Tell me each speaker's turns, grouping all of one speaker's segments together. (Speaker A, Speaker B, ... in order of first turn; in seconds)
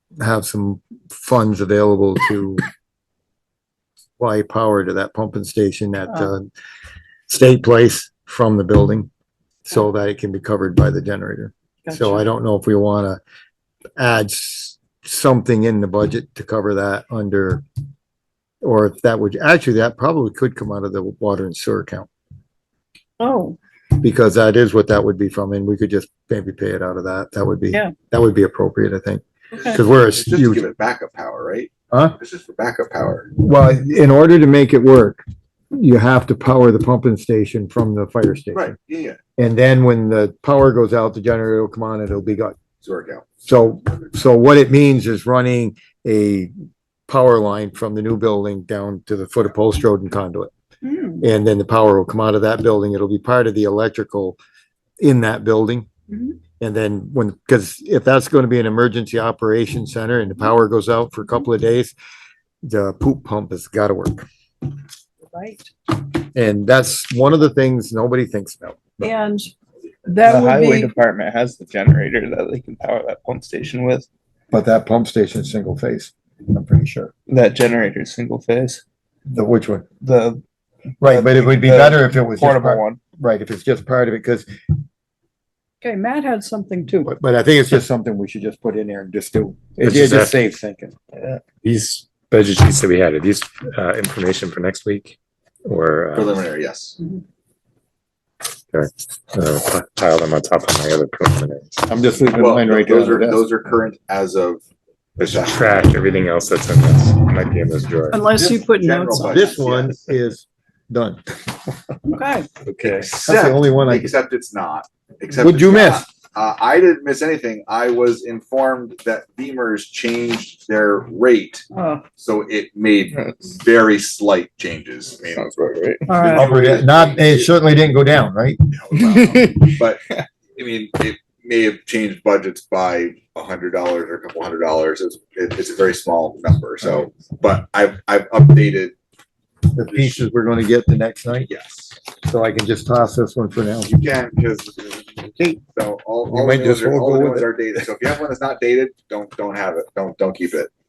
Speaker A: 0.2-2.6, 4.2-6.5, 7.3-9.1, 9.6-13.2, 14.0-17.6, 18.6-22.1, 24.0-30.6, 31.9-32.1, 33.4-38.7, 39.4-42.5, 43.4-46.5, 47.1-50.5, 51.2-54.4, 55.0-55.9, 56.6-61.9, 62.6-64.2, 66.3-69.1, 74.5-77.1, 79.3-79.8, 81.0-84.5, 87.0-90.9, 101.9-103.5, 109.2-111.2, 113.2-114.1, 115.4-116.0, 126.2-128.6, 136.8-137.1, 139.7-141.5, 142.2-143.9, 146.3-147.5
Speaker B: 11.8-12.2, 23.2-23.6, 50.8-51.2, 56.1-56.4, 65.3-65.7, 69.0-69.5, 70.0-70.9, 85.8-87.1, 108.1-109.5, 112.1-112.5, 121.7-122.0, 126.1-126.5
Speaker C: 29.9-33.3, 38.5-39.2, 42.8-43.2, 96.1-97.0, 102.3-104.6, 105.2-105.9, 108.3-110.0, 112.8-121.7, 122.2-125.5, 126.1-127.3, 128.7-130.0, 130.6-138.9, 139.9-140.2, 141.4-141.9, 143.8-150.7
Speaker D: 70.2-74.1, 77.3-78.8, 80.0-80.4, 81.0-83.0, 123.1-123.5, 125.3-126.1, 129.0-129.7
Speaker E: 89.8-90.4, 91.6-96.4, 98.7-101.9, 105.2-108.2, 112.6-113.2